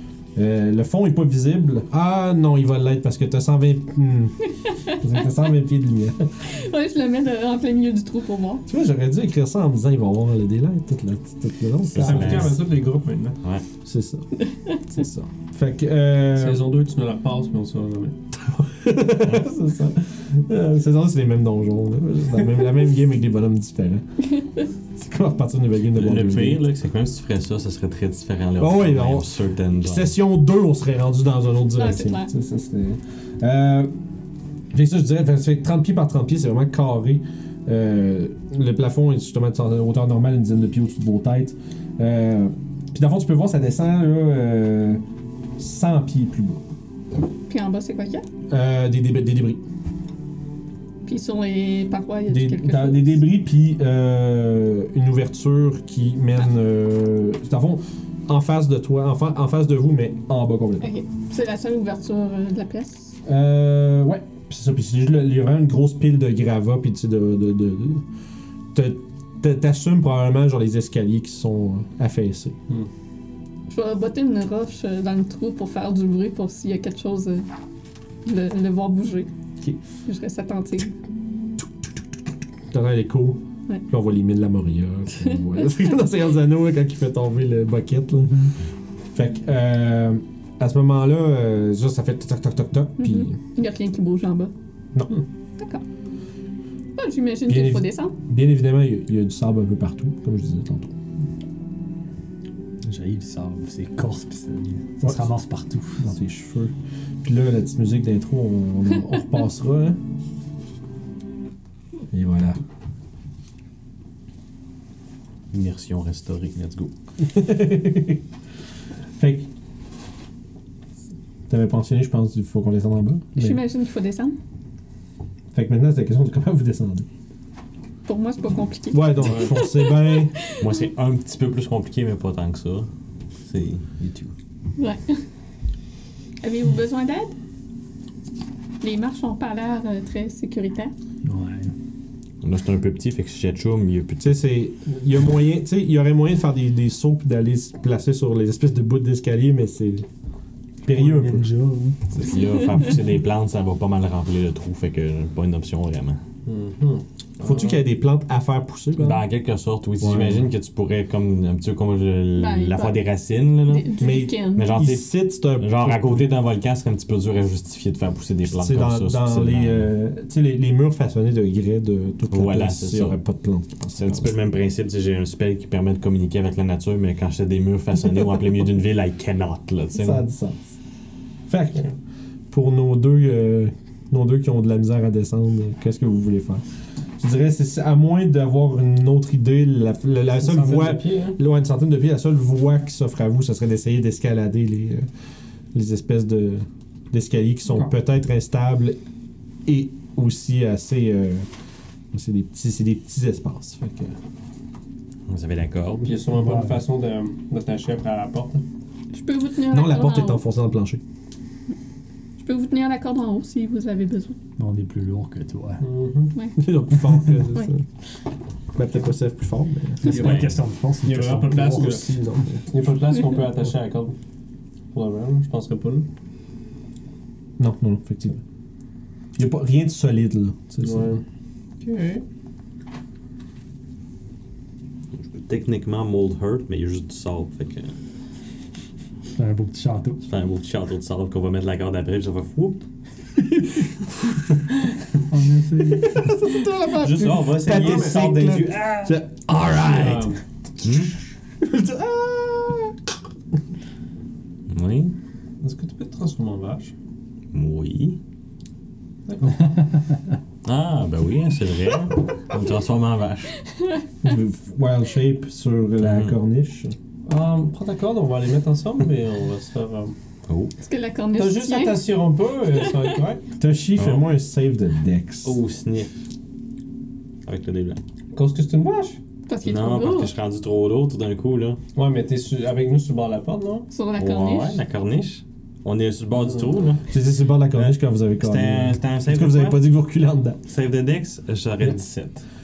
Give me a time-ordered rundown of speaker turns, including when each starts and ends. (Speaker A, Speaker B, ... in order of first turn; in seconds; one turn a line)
Speaker A: 0.4-4.3
Speaker B: 4.6-5.0
Speaker A: 4.9-6.3
Speaker B: 6.4-8.7
Speaker A: 8.7-12.6
Speaker C: 11.9-12.6
Speaker D: 11.9-13.4
Speaker A: 13.8-14.3
Speaker B: 14.4-14.8
Speaker A: 14.8-16.6
Speaker D: 16.4-18.2
Speaker A: 18.3-24.0
Speaker A: 25.0-26.6
Speaker C: 25.9-30.1
Speaker A: 28.6-29.3
Speaker A: 29.8-33.9
Speaker B: 31.8-32.3
Speaker A: 34.7-45.0
Speaker A: 45.6-46.6
Speaker B: 47.5-48.2
Speaker A: 48.5-49.6
Speaker B: 51.0-53.2
Speaker A: 52.3-60.9
Speaker B: 60.8-63.1
Speaker A: 63.2-68.0
Speaker A: 68.7-72.6
Speaker B: 73.7-77.5
Speaker B: 78.2-79.3
Speaker B: 80.0-80.9
Speaker A: 82.7-88.5
Speaker A: 89.1-93.3
Speaker B: 93.0-94.5
Speaker B: 97.0-98.1
Speaker A: 97.5-100.9
Speaker E: 102.8-106.1
Speaker A: 105.0-105.3
Speaker A: 106.0-110.0
Speaker A: 112.1-112.6
Speaker C: 115.5-116.9
Speaker A: 117.2-118.2
Speaker A: 119.2-119.5
Speaker A: 121.5-123.6
Speaker B: 123.3-124.3
Speaker A: 125.5-127.1
Speaker B: 128.1-130.7
Speaker A: 128.9-130.3
Speaker D: 129.2-129.5
Speaker C: 130.6-132.9
Speaker C: 133.5-134.3
Speaker B: 134.8-135.2
Speaker B: 136.4-137.3
Speaker B: 138.8-140.9
Speaker E: 141.2-141.7
Speaker C: 142.4-144.3
Speaker A: 144.2-150.1
Speaker A: 150.8-151.5
Speaker E: 150.9-152.3
Speaker C: 152.2-156.2
Speaker D: 156.4-157.8
Speaker A: 157.4-159.2
Speaker C: 158.9-163.9
Speaker A: 160.0-160.5
Speaker B: 162.3-163.0
Speaker B: 163.7-164.7
Speaker A: 164.0-166.3
Speaker C: 164.5-169.9
Speaker A: 168.5-174.3
Speaker C: 172.3-173.2
Speaker C: 173.9-180.2
Speaker A: 179.9-180.6
Speaker A: 181.5-181.9
Speaker A: 182.5-186.6
Speaker A: 187.2-195.1
Speaker D: 190.3-191.4
Speaker A: 195.7-199.0
Speaker A: 199.7-201.5
Speaker A: 202.1-204.1
Speaker C: 205.3-206.1
Speaker D: 206.1-208.6
Speaker E: 206.3-206.8
Speaker B: 209.1-210.4
Speaker A: 209.7-211.0
Speaker B: 212.4-214.4
Speaker E: 214.6-215.8
Speaker D: 215.8-216.3
Speaker A: 216.6-217.8
Speaker A: 218.8-220.2
Speaker E: 220.0-222.7
Speaker D: 220.1-222.1
Speaker C: 220.1-220.5
Speaker D: 222.7-224.2
Speaker D: 224.9-226.1
Speaker A: 227.6-228.4
Speaker A: 229.4-231.1
Speaker D: 230.8-231.2
Speaker D: 231.8-232.2
Speaker C: 235.3-237.9
Speaker E: 239.3-240.2
Speaker C: 240.2-242.8
Speaker E: 245.3-246.3
Speaker A: 246.0-250.3
Speaker C: 246.9-249.1
Speaker D: 247.7-248.3
Speaker D: 249.8-250.4
Speaker C: 250.8-251.2
Speaker A: 251.6-252.9
Speaker C: 254.7-255.2
Speaker D: 255.6-256.9
Speaker C: 257.5-258.2
Speaker D: 259.3-259.7
Speaker C: 260.6-263.5
Speaker A: 264.2-266.9
Speaker C: 266.0-266.4
Speaker D: 267.2-270.1
Speaker C: 270.4-270.7
Speaker B: 270.8-272.1
Speaker D: 271.3-273.4
Speaker A: 273.6-275.6
Speaker C: 274.0-274.3
Speaker C: 275.4-276.1
Speaker C: 277.4-278.0
Speaker D: 278.3-279.2
Speaker B: 279.5-280.3
Speaker C: 279.6-281.8
Speaker D: 281.9-283.9
Speaker B: 283.9-284.8
Speaker C: 284.2-287.1
Speaker D: 286.4-286.8
Speaker A: 287.1-290.6
Speaker C: 287.7-289.8
Speaker C: 290.7-292.4